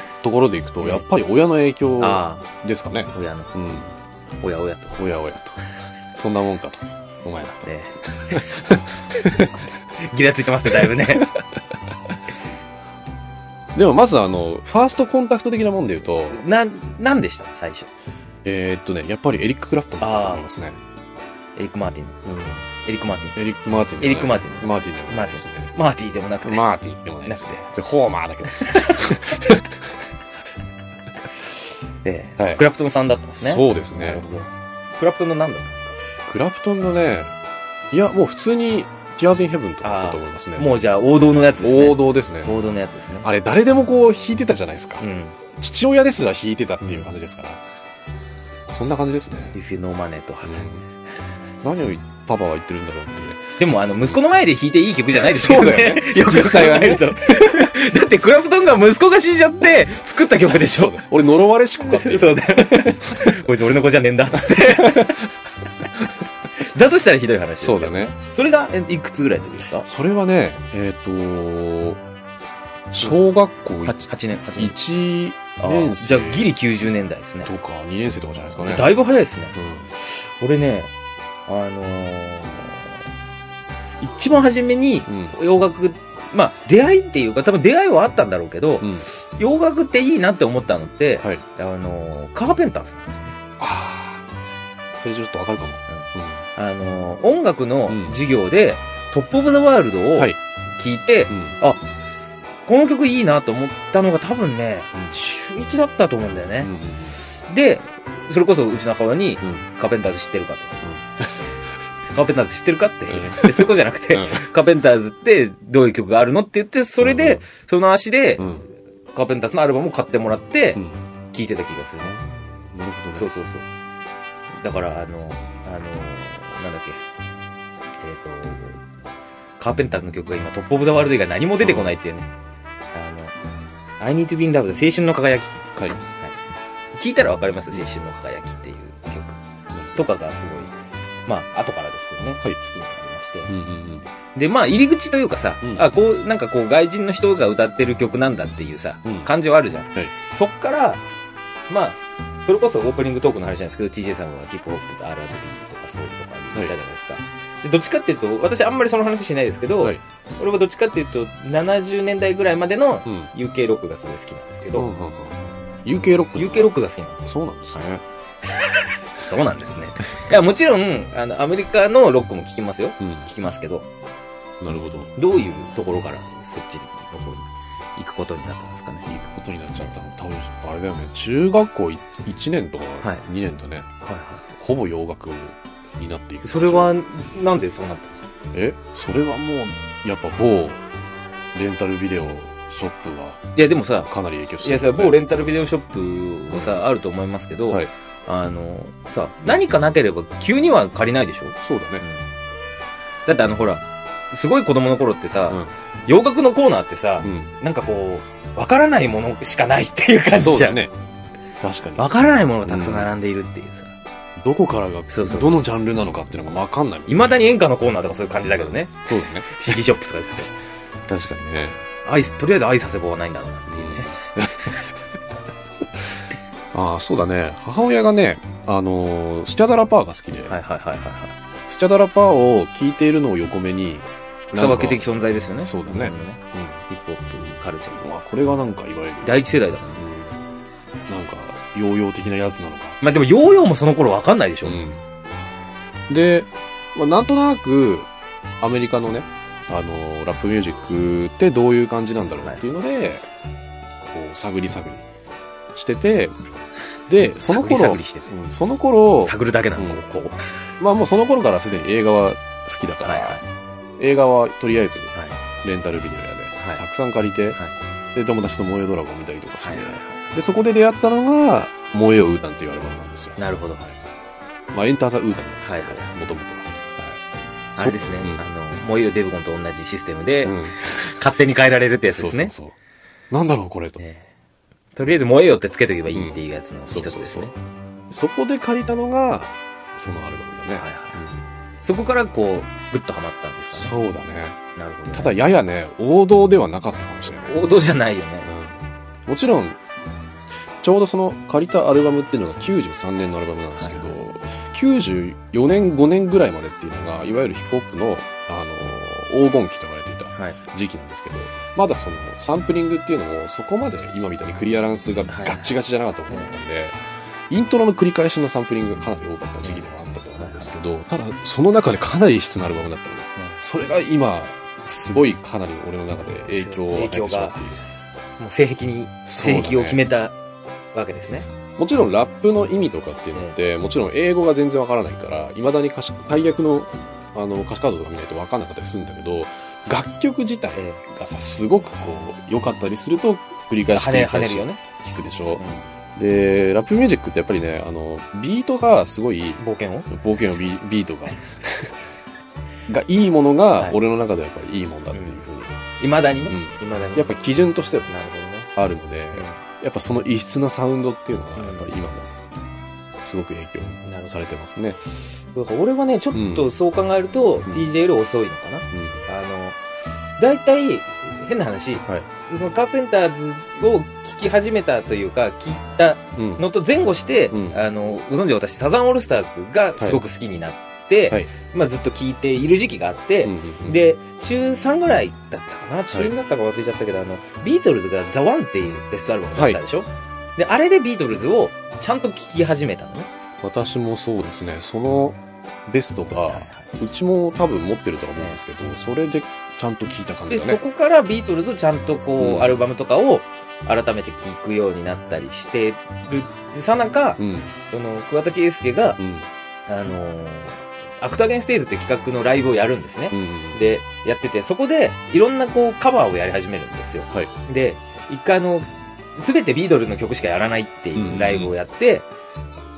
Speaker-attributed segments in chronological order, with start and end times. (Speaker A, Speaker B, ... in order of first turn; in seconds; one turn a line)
Speaker A: 0.2-3.9
Speaker B: 2.0-2.5
Speaker B: 3.1-3.5
Speaker B: 4.4-5.0
Speaker A: 5.0-5.6
Speaker A: 6.1-9.6
Speaker B: 7.6-8.5
Speaker B: 9.3-11.3
Speaker A: 10.8-11.2
Speaker A: 13.7-16.4
Speaker B: 16.3-17.9
Speaker A: 18.4-20.8
Speaker B: 20.0-20.4
Speaker B: 21.6-22.2
Speaker A: 22.2-22.6
Speaker B: 22.8-23.3
Speaker A: 23.3-25.7
Speaker B: 24.0-26.6
Speaker A: 26.4-29.7
Speaker B: 27.2-27.7
Speaker B: 28.4-29.6
Speaker B: 32.0-35.9
Speaker A: 32.4-32.6
Speaker A: 33.4-34.2
Speaker A: 36.2-37.3
Speaker A: 37.9-40.7
Speaker B: 39.8-43.3
Speaker A: 41.6-42.6
Speaker A: 43.2-45.0
Speaker B: 45.0-45.4
Speaker A: 45.6-47.6
Speaker A: 48.7-49.5
Speaker B: 49.5-50.7
Speaker A: 50.4-50.8
Speaker A: 51.6-53.4
Speaker B: 53.6-61.0
Speaker A: 55.1-57.5
Speaker A: 60.5-63.4
Speaker B: 61.8-65.2
Speaker A: 64.5-65.2
Speaker B: 66.6-69.8
Speaker A: 67.6-68.1
Speaker A: 69.8-72.0
Speaker A: 72.9-76.5
Speaker B: 73.8-74.8
Speaker B: 75.6-77.5
Speaker A: 77.4-78.9
Speaker B: 78.6-80.9
Speaker A: 79.5-79.9
Speaker B: 81.5-82.9
Speaker B: 84.0-93.4
Speaker A: 85.1-85.4
Speaker A: 88.8-89.1
Speaker A: 93.6-94.2
Speaker A: 95.0-96.4
Speaker B: 95.9-101.8
Speaker A: 97.9-98.2
Speaker A: 101.3-101.6
Speaker B: 102.7-110.8
Speaker A: 106.6-107.2
Speaker A: 110.8-111.3
Speaker B: 112.1-118.5
Speaker A: 113.1-114.5
Speaker A: 117.0-117.4
Speaker A: 118.4-118.7
Speaker B: 119.1-122.2
Speaker A: 122.0-123.3
Speaker B: 123.1-123.7
Speaker B: 124.6-127.0
Speaker B: 128.0-128.8
Speaker B: 129.6-132.3
Speaker A: 131.6-132.0
Speaker B: 132.9-133.3
Speaker B: 134.0-136.4
Speaker B: 136.9-139.4
Speaker B: 139.9-140.7
Speaker B: 141.3-143.5
Speaker A: 143.5-144.1
Speaker B: 144.3-151.0
Speaker B: 151.7-164.9
Speaker A: 164.7-166.7
Speaker B: 166.3-167.8
Speaker A: 167.2-168.0
Speaker B: 168.5-173.8
Speaker A: 173.0-173.3
Speaker A: 174.6-175.1
Speaker B: 175.2-179.1
Speaker A: 179.1-183.9
Speaker B: 184.0-184.4
Speaker A: 184.5-186.9
Speaker B: 186.4-188.2
Speaker A: 188.5-190.8
Speaker A: 191.5-193.4
Speaker B: 193.6-194.1
Speaker A: 194.1-195.2
Speaker B: 194.6-202.2
Speaker A: 196.5-196.8
Speaker A: 201.6-202.0
Speaker B: 203.2-210.8
Speaker A: 207.2-207.5
Speaker A: 210.3-210.9
Speaker A: 211.6-212.1
Speaker B: 212.0-213.9
Speaker A: 212.7-213.1
Speaker A: 214.4-217.4
Speaker B: 215.1-215.6
Speaker B: 217.1-220.5
Speaker A: 218.6-219.5
Speaker A: 221.1-221.8
Speaker B: 222.0-224.7
Speaker A: 223.7-224.8
Speaker A: 226.7-230.6
Speaker B: 230.5-231.3
Speaker A: 231.7-235.0
Speaker B: 234.5-238.0
Speaker A: 235.6-236.8
Speaker A: 238.0-239.4
Speaker B: 239.2-240.0
Speaker A: 240.0-240.4
Speaker A: 241.1-243.0
Speaker B: 243.0-244.8
Speaker A: 244.6-245.0
Speaker A: 246.1-248.1
Speaker A: 248.6-253.2
Speaker A: 254.0-255.0
Speaker A: 255.7-256.3
Speaker A: 257.1-260.0
Speaker B: 257.4-258.3
Speaker B: 259.2-260.4
Speaker A: 260.8-263.4
Speaker B: 263.0-263.4
Speaker A: 264.0-265.1
Speaker A: 265.6-267.6
Speaker A: 268.1-273.4
Speaker B: 269.6-270.2
Speaker B: 273.4-273.9
Speaker A: 274.7-277.2
Speaker B: 275.6-276.1
Speaker B: 277.8-282.5
Speaker A: 277.8-278.4
Speaker A: 280.4-281.1
Speaker A: 282.1-282.7
Speaker A: 283.3-284.0
Speaker B: 284.0-284.3
Speaker B: 284.9-287.5
Speaker A: 286.1-287.5
Speaker A: 288.1-291.4
Speaker B: 290.7-291.2
Speaker B: 291.8-293.9
Speaker A: 293.7-294.6
Speaker B: 294.8-295.4
Speaker A: 295.1-297.7
Speaker B: 297.4-298.5
Speaker A: 298.4-299.8
Speaker A: 300.8-317.0
Speaker B: 303.8-304.1
Speaker B: 315.3-315.7
Speaker B: 316.3-316.6
Speaker A: 317.5-327.8
Speaker B: 319.6-320.7
Speaker B: 326.5-327.6
Speaker B: 328.4-330.3
Speaker A: 329.2-330.0
Speaker B: 330.9-331.5
Speaker A: 331.8-345.6
Speaker B: 340.7-341.0
Speaker B: 343.9-344.8
Speaker B: 345.6-345.8
Speaker A: 346.1-352.0
Speaker B: 349.6-350.1
Speaker A: 352.9-355.7
Speaker B: 355.1-355.4
Speaker B: 356.0-357.4
Speaker A: 356.5-358.1
Speaker B: 358.1-358.7
Speaker A: 358.8-362.3
Speaker B: 361.6-361.9
Speaker A: 363.2-365.0
Speaker B: 364.0-364.4
Speaker B: 365.5-369.8
Speaker A: 366.3-366.7
Speaker A: 368.9-369.2
Speaker B: 370.4-393.3
Speaker A: 376.4-376.6
Speaker A: 377.5-377.8
Speaker A: 383.4-384.0
Speaker A: 393.6-400.8
Speaker B: 396.5-396.9
Speaker B: 400.5-409.2
Speaker A: 402.4-402.8
Speaker A: 407.4-407.7
Speaker A: 409.2-409.5
Speaker B: 409.9-422.3
Speaker A: 413.3-413.8
Speaker A: 421.1-421.7